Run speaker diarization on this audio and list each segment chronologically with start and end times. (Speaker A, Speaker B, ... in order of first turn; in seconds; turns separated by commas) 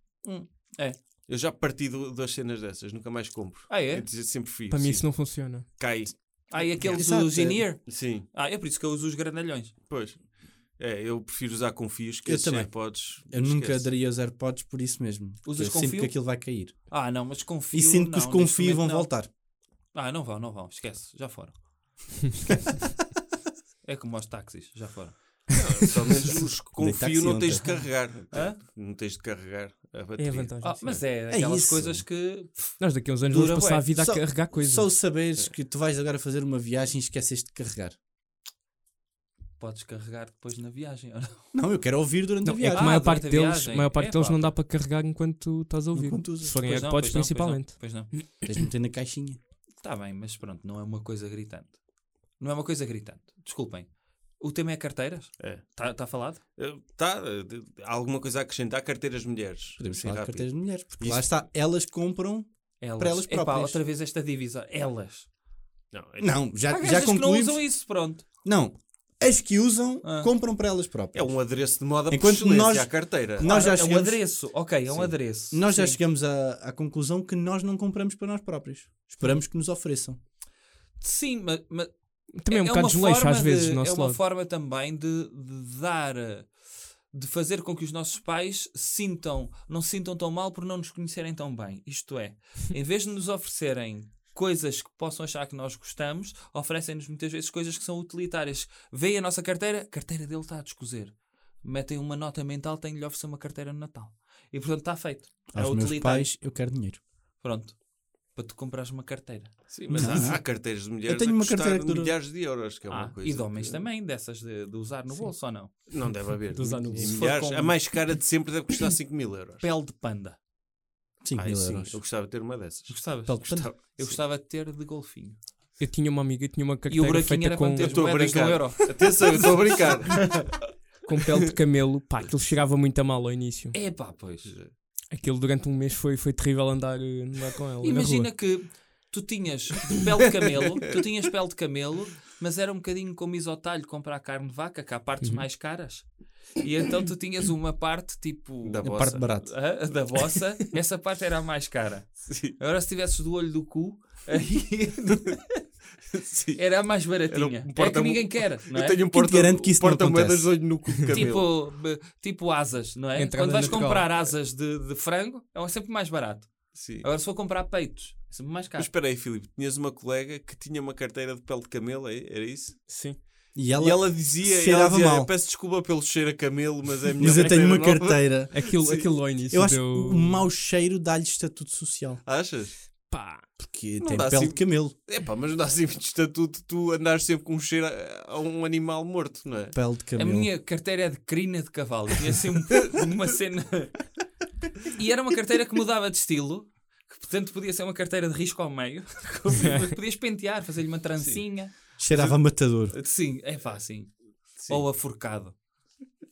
Speaker A: 0.2-1.0, Speaker B: 1.3-7.0, Speaker A: 3.7-4.1, Speaker C: 4.7-5.7, Speaker A: 6.5-9.7, Speaker D: 6.8-7.7, Speaker B: 7.8-8.3, Speaker B: 9.9-10.2, Speaker B: 10.8-13.9, Speaker D: 12.2-17.0, Speaker A: 15.4-16.3, Speaker A: 16.9-19.2, Speaker D: 17.7-19.3, Speaker A: 19.9-21.6, Speaker A: 23.8-25.4, Speaker B: 25.5-31.0, Speaker D: 26.8-27.9, Speaker A: 28.3-28.6, Speaker C: 30.2-31.0, Speaker A: 30.6-33.9, Speaker D: 31.3-32.1, Speaker C: 32.8-34.9, Speaker D: 33.9-38.0, Speaker A: 39.6-41.5, Speaker D: 41.5-42.9, Speaker C: 42.4-48.5, Speaker A: 42.7-44.6, Speaker D: 45.9-46.6, Speaker A: 46.4-48.1, Speaker D: 48.4-49.4, Speaker A: 49.8-51.8, Speaker A: 52.4-56.4, Speaker B: 55.4-55.6, Speaker B: 56.6-61.4, Speaker D: 59.8-63.8, Speaker A: 62.8-65.3, Speaker B: 65.9-66.4, Speaker D: 66.2-67.8, Speaker A: 66.7-68.2, Speaker D: 68.4-71.3, Speaker A: 70.0-70.3, Speaker B: 71.1-73.7, Speaker D: 72.1-80.2, Speaker A: 73.4-76.0, Speaker A: 81.0-81.9, Speaker C: 82.4-84.2, Speaker A: 82.4-86.5, Speaker A: 87.1-106.3, Speaker D: 105.5-107.0, Speaker A: 107.4-110.3, Speaker B: 109.7-113.8, Speaker D: 109.9-110.4, Speaker D: 111.0-112.1, Speaker A: 112.9-115.7, Speaker B: 115.8-119.6, Speaker C: 116.5-117.2, Speaker A: 116.9-117.9, Speaker A: 119.6-120.4, Speaker D: 121.2-122.0, Speaker B: 121.3-124.1, Speaker A: 122.9-125.4, Speaker D: 123.2-124.2, Speaker C: 125.8-128.1, Speaker A: 126.9-129.1, Speaker B: 127.8-130.6, Speaker C: 131.0-133.8, Speaker A: 133.7-134.5, Speaker B: 134.2-134.7, Speaker C: 135.1-138.3, Speaker A: 137.8-155.2, Speaker C: 145.2-145.4, Speaker B: 148.6-149.3, Speaker D: 148.8-149.5, Speaker B: 152.3-152.5, Speaker B: 155.0-161.6, Speaker A: 156.6-159.0, Speaker D: 159.1-160.7, Speaker A: 161.1-168.9, Speaker C: 163.2-164.1, Speaker B: 166.7-167.1, Speaker B: 168.8-172.8, Speaker C: 172.9-173.2, Speaker D: 173.5-175.3, Speaker B: 173.8-179.2, Speaker D: 177.2-178.6, Speaker C: 178.5-180.5, Speaker D: 179.5-182.2, Speaker B: 182.2-182.7, Speaker C: 183.1-183.4, Speaker D: 183.6-184.9, Speaker B: 184.0-189.8, Speaker D: 189.7-190.5, Speaker A: 190.2-194.0, Speaker A: 194.9-202.3, Speaker D: 202.0-202.9, Speaker A: 202.9-205.6, Speaker B: 204.6-204.8